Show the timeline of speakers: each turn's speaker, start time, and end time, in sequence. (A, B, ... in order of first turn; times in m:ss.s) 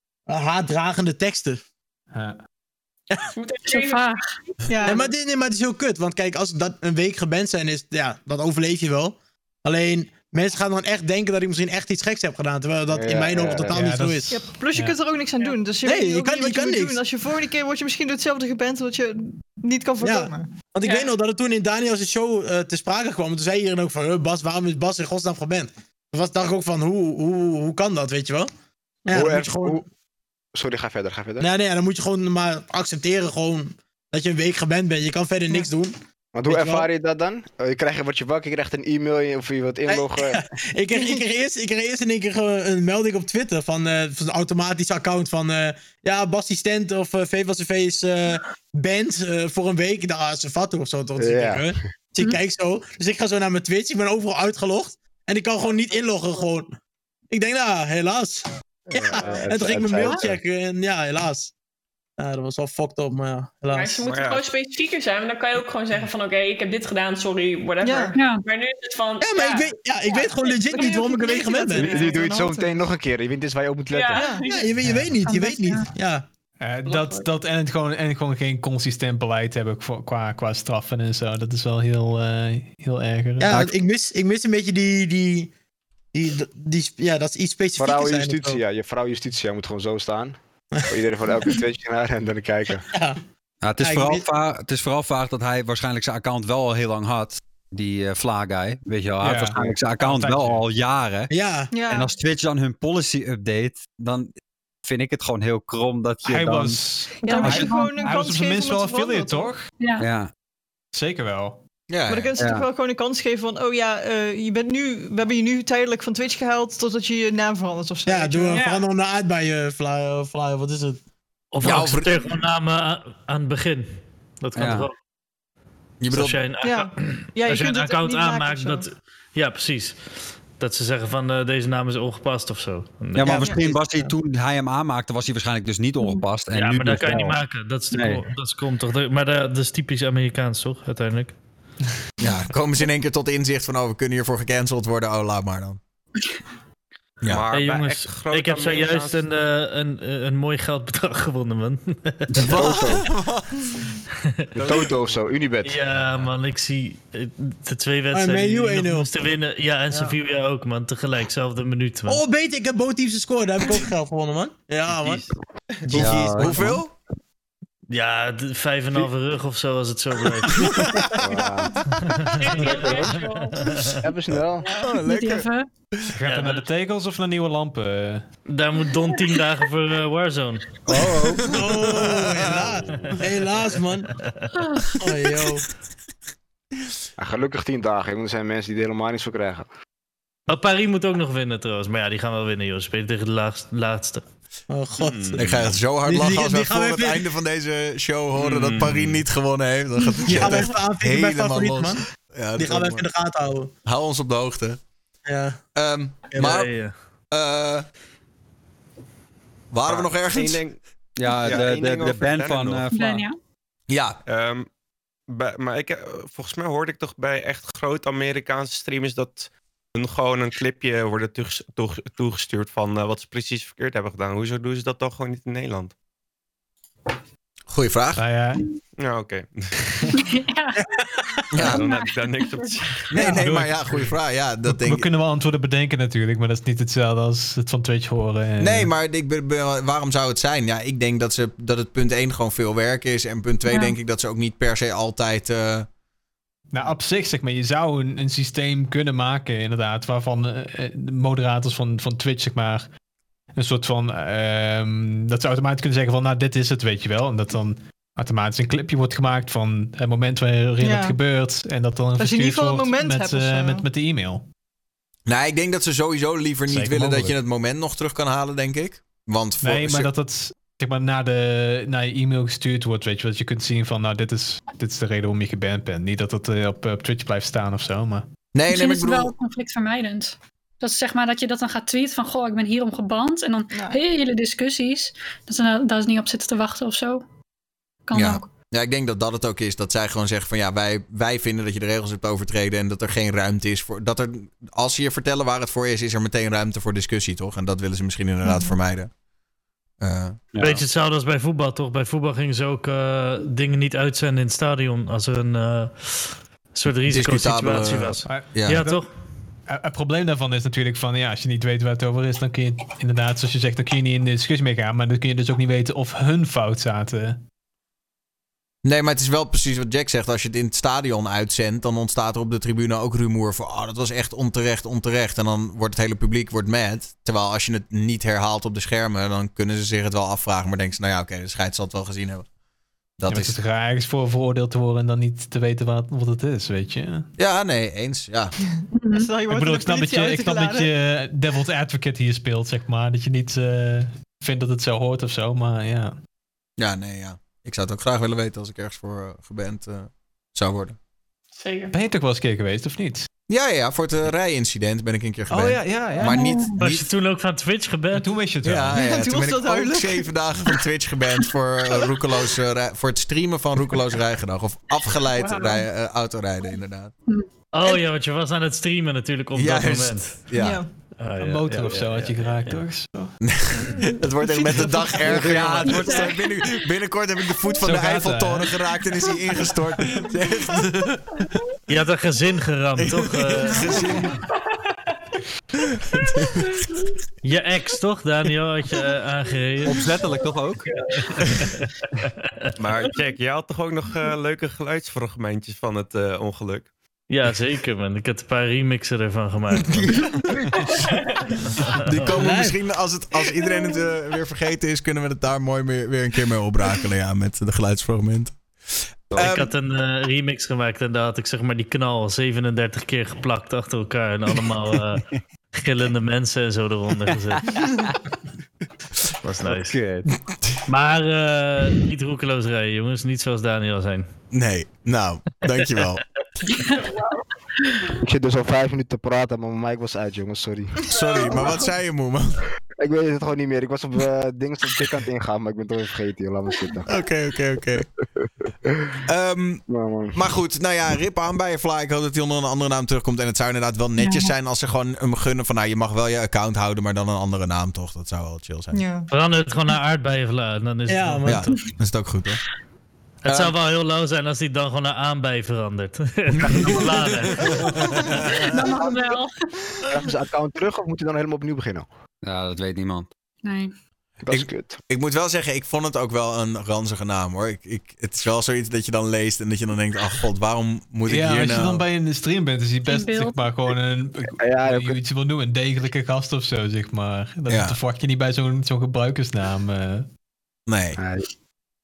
0:00.3-0:01.6 A
0:03.4-0:04.3 B
0:03.7-0:04.3 C
0:04.6-0:05.1 D
0:04.8-0:14.3 A
0:12.9-0:13.7 E
0:13.7-0:15.0 F
0:14.3-0:20.5 D
0:15.8-0:17.0 A
0:20.0-0:28.5 A
0:29.1-0:29.8 A
0:29.1-0:29.8 E
0:30.5-0:31.5 E
0:31.4-0:35.9 A
0:36.3-0:40.4 E
0:36.5-0:36.9 A
0:39.9-0:56.7 A
0:51.2-0:51.7 E
0:57.3-1:01.5 A
0:58.9-1:00.4 E
1:02.2-1:03.9 A
1:03.7-1:11.0 B
1:04.0-1:04.4 G
1:07.8-1:08.2 D
1:08.1-1:08.4 C
1:09.2-1:12.1 A
1:10.1-1:12.9 D
1:11.8-1:14.3 E
1:13.9-1:14.7 B
1:14.1-1:14.4 D
1:14.5-1:16.2 A
1:14.8-1:15.1 F
1:15.2-1:15.9 C
1:16.6-1:23.7 F
1:16.8-1:17.3 B
1:23.4-1:25.5 A
1:26.1-1:28.6 A
1:27.8-1:32.8 E
1:32.9-1:33.2 A
1:33.6-1:41.3 H
1:33.8-1:34.2 A
1:39.2-1:40.6 F
1:39.5-1:39.8 E
1:41.3-1:41.7 A
1:41.7-1:42.1 D
1:41.9-1:44.3 H
1:44.8-1:46.8 H
1:46.2-1:49.7 F
1:47.2-1:49.5 D
1:47.3-1:47.9 C
1:49.8-1:50.1 C
1:50.0-1:50.3 H
1:50.9-1:51.6 F
1:51.9-1:52.3 I
1:52.1-1:58.8 D
1:52.4-1:52.6 H
1:58.0-2:01.0 A
1:58.5-1:58.8 B
2:01.5-2:04.9 J
2:01.6-2:02.2 I
2:04.6-2:04.9 H
2:06.0-2:06.4 I
2:06.1-2:13.6 J
2:06.6-2:08.8 D
2:13.1-2:18.2 H
2:13.2-2:14.1 A
2:16.5-2:21.3 J
2:22.2-2:25.8 I
2:27.2-2:27.5 I
2:27.2-2:29.2 G
2:27.5-2:32.6 J
2:32.4-2:33.0 E
2:32.4-2:33.7 I
2:34.5-2:35.8 E
2:35.6-2:42.2 J
2:38.1-2:39.1 A
2:42.1-2:45.2 A
2:44.9-2:45.3 G
2:45.9-2:46.9 I
2:45.9-2:46.8 H
2:47.9-2:51.1 J
2:50.7-2:51.0 I
2:51.2-2:51.9 E
2:52.1-2:54.0 J
2:52.4-2:53.7 B
2:52.5-2:52.8 F
2:52.8-2:53.1 E
2:54.0-2:54.7 E
2:54.6-2:54.9 B
2:54.8-2:56.1 I
2:54.9-2:55.7 C
2:56.1-2:58.2 F
2:56.2-2:56.6 J
2:58.5-3:01.1 J
3:00.9-3:01.5 H
3:01.0-3:01.7 I
3:01.5-3:04.1 A
3:02.5-3:03.2 J
3:04.1-3:04.5 J
3:05.0-3:05.7 A
3:07.2-3:09.7 E
3:10.5-3:14.2 J
3:14.7-3:17.2 A
3:15.0-3:15.4 G
3:15.4-3:23.0 I
3:18.4-3:19.2 G
3:20.3-3:22.0 A
3:22.6-3:23.7 A
3:23.8-3:24.8 I
3:25.3-3:25.6 A
3:25.7-3:26.8 I
3:26.3-3:26.9 J
3:27.3-3:27.8 I
3:29.7-3:30.6 I
3:29.8-3:30.8 G
3:31.2-3:33.2 H
3:31.3-3:32.9 G
3:31.5-3:31.7 E
3:32.9-3:33.4 C
3:33.9-3:34.2 I
3:34.3-3:34.7 G
3:35.3-3:45.9 G
3:47.7-3:48.2 I
3:48.2-3:48.6 F
3:49.0-3:50.1 G
3:50.1-3:51.0 C
3:51.5-3:51.8 I
3:51.6-3:52.6 C
3:51.6-3:53.3 G
3:53.1-3:55.1 I
3:53.2-3:53.9 F
3:54.6-3:58.9 F
3:58.6-4:05.9 I
4:03.7-4:03.9 C
4:06.7-4:12.9 F
4:13.5-4:24.4 F
4:20.8-4:21.2 D
4:22.2-4:23.8 D
4:25.3-4:30.1 I
4:26.7-4:27.3 F
4:29.6-4:38.2 F
4:38.5-4:39.3 I
4:38.7-4:47.2 C
4:43.7-4:44.0 D
4:48.1-4:48.5 C
4:48.1-4:59.1 I
5:00.0-5:00.4 I
5:00.5-5:00.8 H
5:00.6-5:09.1 J
5:07.1-5:08.9 I
5:08.2-5:09.0 F
5:09.7-5:17.4 F
5:18.8-5:32.4 I
5:33.2-5:33.6 I
5:33.3-5:37.3 F
5:37.4-5:38.5 I
5:38.9-5:39.3 C
5:39.1-5:40.9 D
5:39.4-5:46.1 F
5:46.8-5:51.0 I
5:51.6-5:51.9 B
5:51.9-5:53.3 F
5:53.5-5:57.1 I
5:55.5-5:56.4 F
5:56.3-5:56.6 C
5:56.8-5:58.2 J
5:58.1-5:59.0 F
5:58.6-6:07.1 I
5:58.9-6:00.3 D
6:05.5-6:05.8 D
6:07.7-6:10.5 J
6:09.5-6:10.8 I
6:10.5-6:10.9 D
6:11.2-6:12.8 J
6:11.4-6:13.3 F
6:13.4-6:21.2 I
6:15.3-6:16.3 H
6:17.8-6:18.9 F
6:21.9-6:24.0 J
6:23.0-6:24.3 I
6:26.2-6:26.6 I
6:26.6-6:26.9 B
6:27.4-6:30.1 J
6:29.8-6:31.0 H
6:31.4-6:31.9 J
6:32.8-6:36.9 G
6:37.3-6:40.4 J
6:41.8-6:42.3 J
6:42.0-6:48.6 I
6:42.3-6:42.8 A
6:49.3-6:49.7 I
6:49.3-6:58.0 J
6:59.4-7:00.0 J
6:59.6-7:00.3 H
7:00.5-7:00.8 I
7:00.9-7:04.3 J
7:04.5-7:06.2 I
7:06.8-7:07.0 C
7:08.2-7:11.0 E
7:11.1-7:12.6 I
7:11.2-7:11.8 D
7:13.0-7:17.2 E
7:17.1-7:18.1 I
7:18.8-7:19.1 E
7:19.3-7:29.0 I
7:19.9-7:20.4 E
7:28.9-7:29.3 D
7:29.3-7:31.8 J
7:31.1-7:31.7 A
7:31.4-7:32.6 I
7:33.4-7:38.1 J
7:33.5-7:33.7 I
7:36.6-7:37.5 E
7:36.7-7:37.0 I
7:37.6-7:38.7 I
7:38.7-7:39.5 C
7:39.0-7:39.3 E
7:40.1-7:42.1 E
7:42.4-7:43.3 H
7:43.6-7:43.9 C
7:44.4-7:45.0 E
7:44.5-7:52.0 I
7:51.3-8:00.3 F
7:53.1-7:53.6 C
7:54.6-7:55.2 E
7:57.7-7:58.0 I
8:00.9-8:01.2 I
8:01.2-8:01.5 E